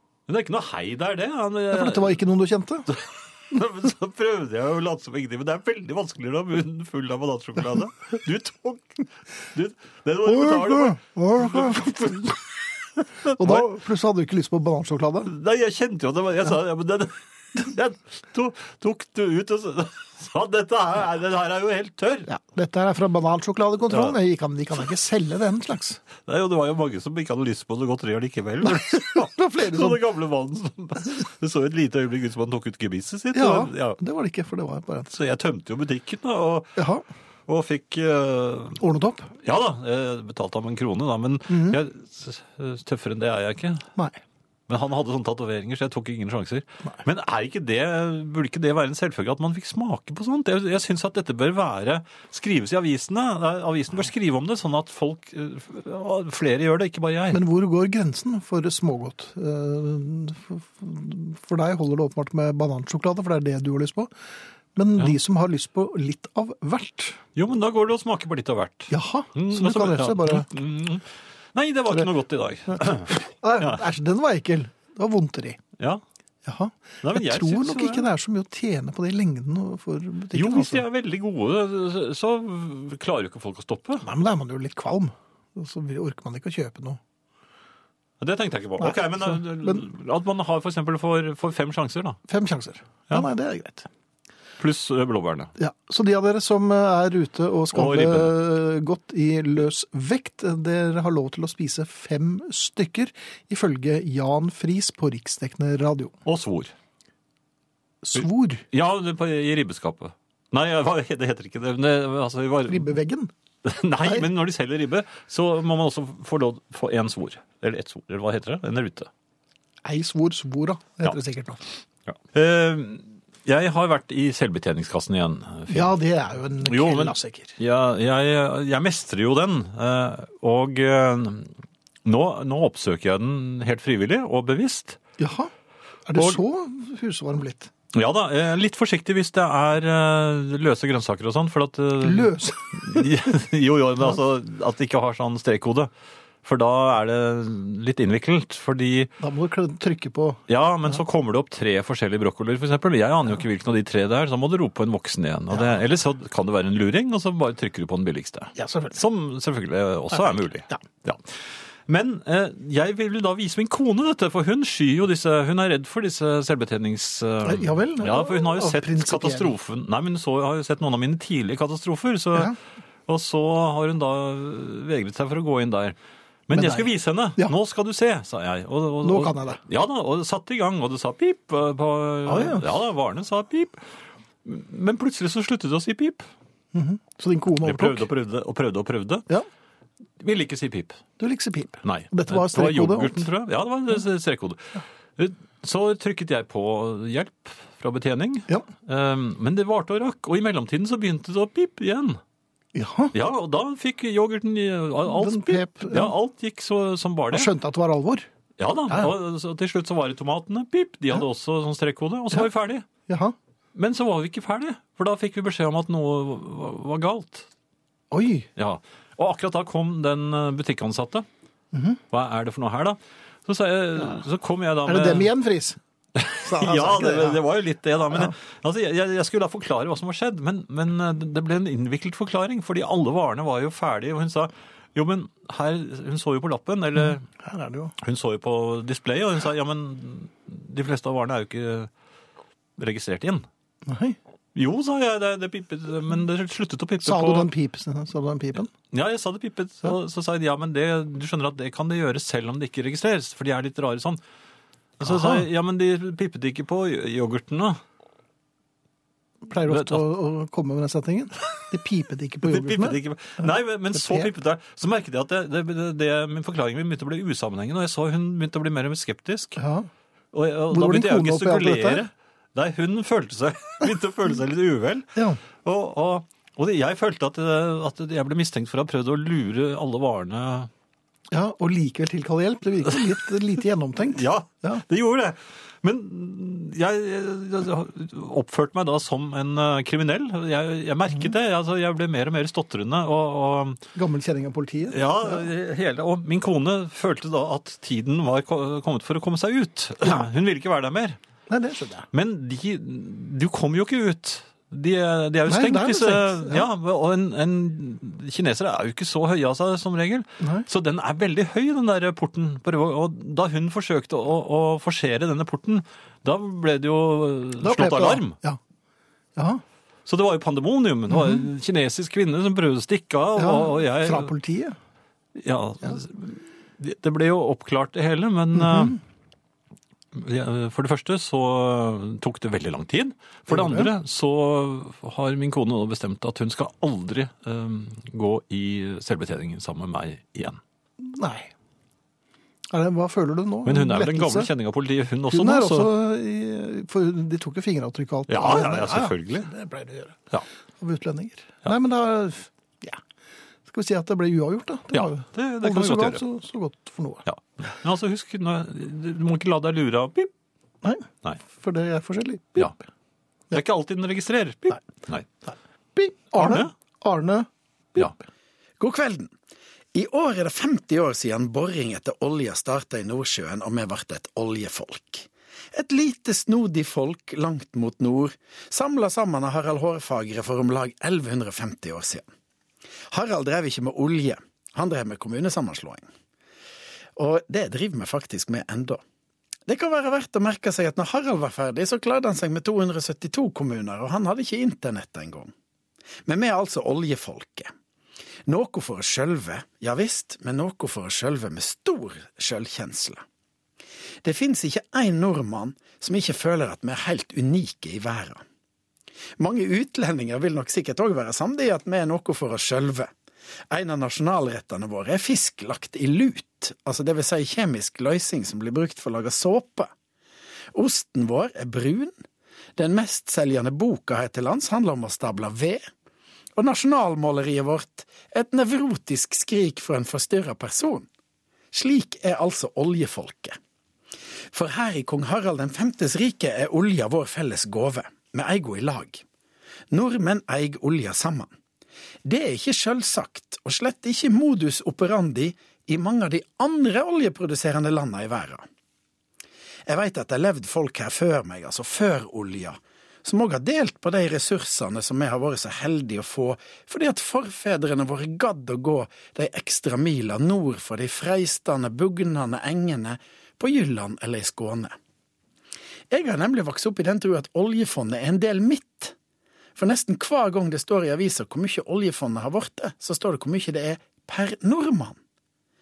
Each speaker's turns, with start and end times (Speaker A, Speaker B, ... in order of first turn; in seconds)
Speaker A: 0.3-2.2, 2.9-13.7, 15.3-22.3, 23.9-24.2, 26.3-34.0, 35.1-36.8, 37.5-38.8, 39.4-43.9, 44.7-57.4, 67.4-73.8, 75.8-76.0, 77.0-78.1, 80.3-84.1, 88.2-92.2, 94.6-95.5, 97.7-98.3, 106.2-106.7, 108.2-112.9, 113.6-119.1, 122.1-126.0, 126.6-131.5, 132.1-135.0, 136.2-136.4, 137.9-145.9, 146.4-149.1, 150.5-172.6, 173.1-176.0, 176.5-183.8, 184.4-186.3, 187.6-189.3, 190.2-191.0, 191.8-202.2, 203.1-207.5, 208.6-212.9, 213.8-217.5, 218.6-221.3, 222.1-225.3, 226.2-237.2, 238.0-241.9, 242.8-243.5, 244.6-247.5, 248.7-254.2, 255.0-257.8, 259.7-260.0, 262.4-269.6, 270.3-275.1, 275.6-280.7, 284.1-293.8, 294.9-301.2, 302.1-318.4, 320.1-324.3, 325.4-329.0, 330.1-340.6, 343.6-345.9, 348.3-349.5, 354.9-356.2, 357.3-360.3, 363.5-365.3, 366.4-366.7
Speaker B: 1.7-2.9, 10.2-12.2, 13.3-15.3, 22.3-26.0, 28.6-30.0, 33.3-35.1, 36.8-37.0, 38.8-39.3, 41.5-41.8, 44.0-44.2, 57.3-64.1, 64.8-67.2, 68.9-70.5, 72.7-75.6, 76.5-80.8, 84.0-87.0, 88.8-89.8, 92.3-93.9, 95.6-106.1, 108.0-108.7, 112.7-113.3, 119.8-121.6, 125.7-127.6, 135.2-135.5, 136.1-137.7, 142.0-143.1, 149.2-150.9, 158.6-159.0, 167.4-169.5, 176.5-177.5, 179.0-179.6, 182.3-182.7, 186.7-188.1, 191.2-193.3, 202.7-203.2, 205.1-206.1, 207.3-208.3, 213.1-213.3, 218.1-218.5, 221.7-222.0, 224.9-225.8, 226.4-227.4, 237.3-237.9, 243.9-244.2, 247.0-248.7, 255.0-255.5, 259.4-264.3, 269.6-269.9, 270.7-272.0, 275.1-275.4, 281.3-284.8, 293.9-295.4, 301.5-302.1, 305.5-306.7, 310.4-310.7, 317.6-318.6, 319.4-319.6, 323.4-324.8, 328.6-329.0, 333.5-333.9, 341.0-341.5, 342.7-344.5, 345.3-350.3, 350.8-353.0, 353.7-357.3, 360.8-362.8, 365.5-368.2
Speaker C: 368.8-369.3, 369.9-382.3, 383.1-386.1, 387.2-389.0, 389.7-395.5, 396.3-397.7, 398.5-403.2, 404.2-408.4, 409.4-413.1, 413.7-419.9, 420.7-422.1, 422.8-425.9, 426.6-431.1, 431.7-433.6, 434.5-439.2, 439.9-441.5, 442.2-448.6, 449.9-464.9, 466.1-469.1, 469.8-475.2